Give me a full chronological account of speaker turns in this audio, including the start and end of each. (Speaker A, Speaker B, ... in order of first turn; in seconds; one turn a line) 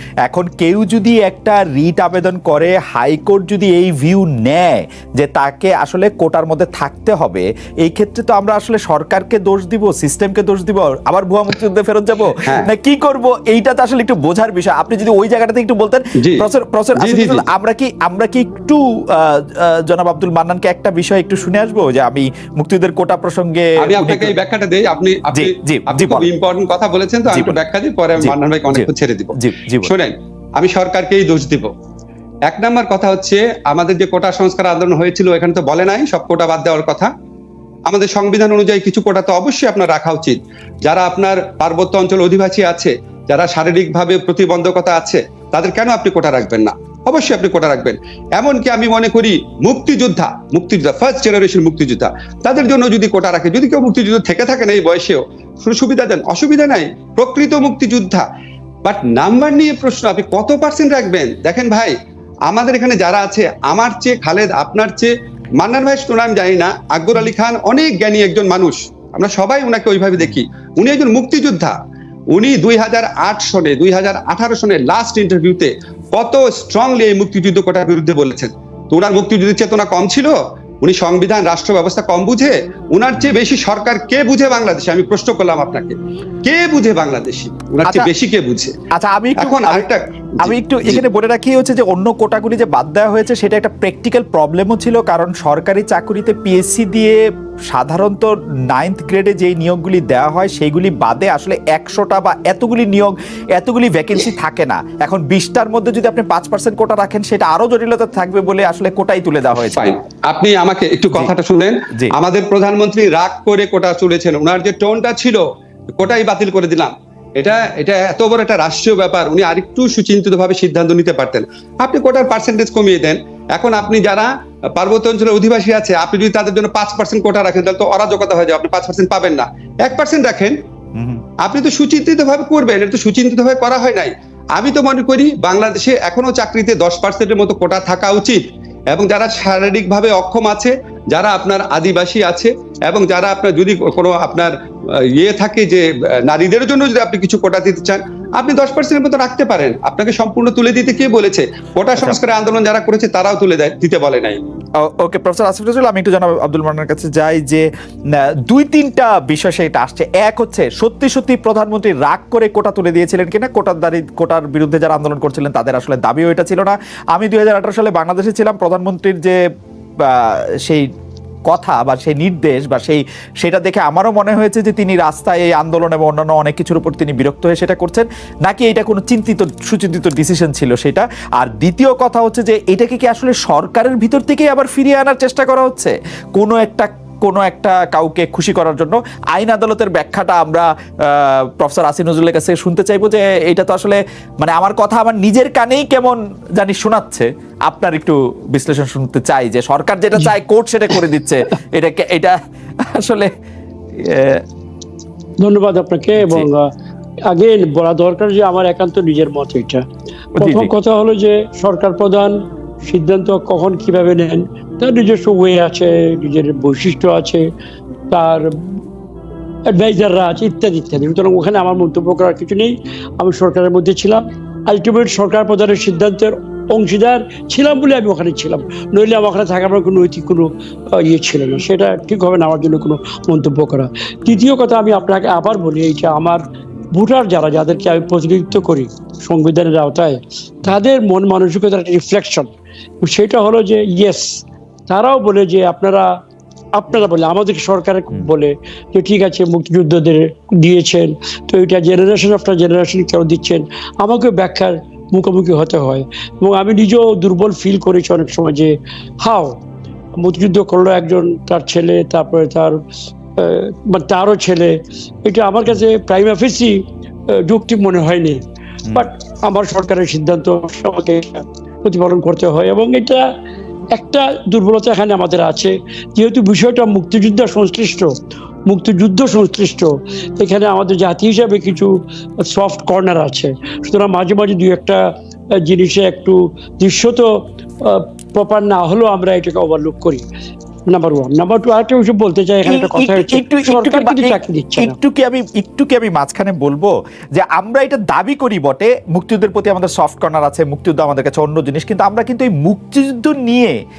Speaker A: 0.2-24.4
Speaker B: 12.4-12.7
Speaker B: 16.2-16.4
Speaker B: 17.0-17.4
Speaker B: 23.8-31.7
Speaker A: 25.3-26.3
Speaker A: 27.3-27.6
Speaker A: 28.2-29.9
Speaker B: 32.5-37.1
Speaker B: 37.9-58.2
Speaker B: 58.8-61.9
Speaker B: 62.5-71.8
Speaker B: 72.3-88.7
Speaker A: 87.8-88.1
Speaker A: 88.9-89.9
Speaker B: 89.4-91.0
Speaker A: 90.4-97.2
Speaker A: 97.7-109.9
Speaker B: 109.7-115.4
Speaker B: 116.0-130.6
Speaker A: 131.0-131.2
Speaker B: 131.4-154.4
Speaker A: 154.8-157.6
Speaker A: 158.5-169.4
Speaker A: 170.0-170.9
Speaker A: 171.5-202.4
Speaker A: 202.9-203.3
Speaker A: 204.0-204.4
Speaker C: 205.4-206.7
Speaker A: 206.2-206.5
Speaker C: 207.3-209.8
Speaker A: 210.4-210.7
Speaker C: 210.4-212.3
Speaker C: 212.8-217.4
Speaker C: 218.1-218.5
Speaker C: 219.7-242.5
Speaker C: 243.0-246.1
Speaker C: 246.8-259.6
Speaker C: 260.2-262.8
Speaker C: 263.4-264.7
Speaker C: 265.2-266.7
Speaker C: 267.4-268.4
Speaker C: 268.9-273.2
Speaker C: 273.9-278.1
Speaker C: 278.7-281.9
Speaker C: 282.4-285.0
Speaker C: 285.6-287.3
Speaker C: 287.8-290.2
Speaker C: 290.9-295.0
Speaker A: 292.6-303.8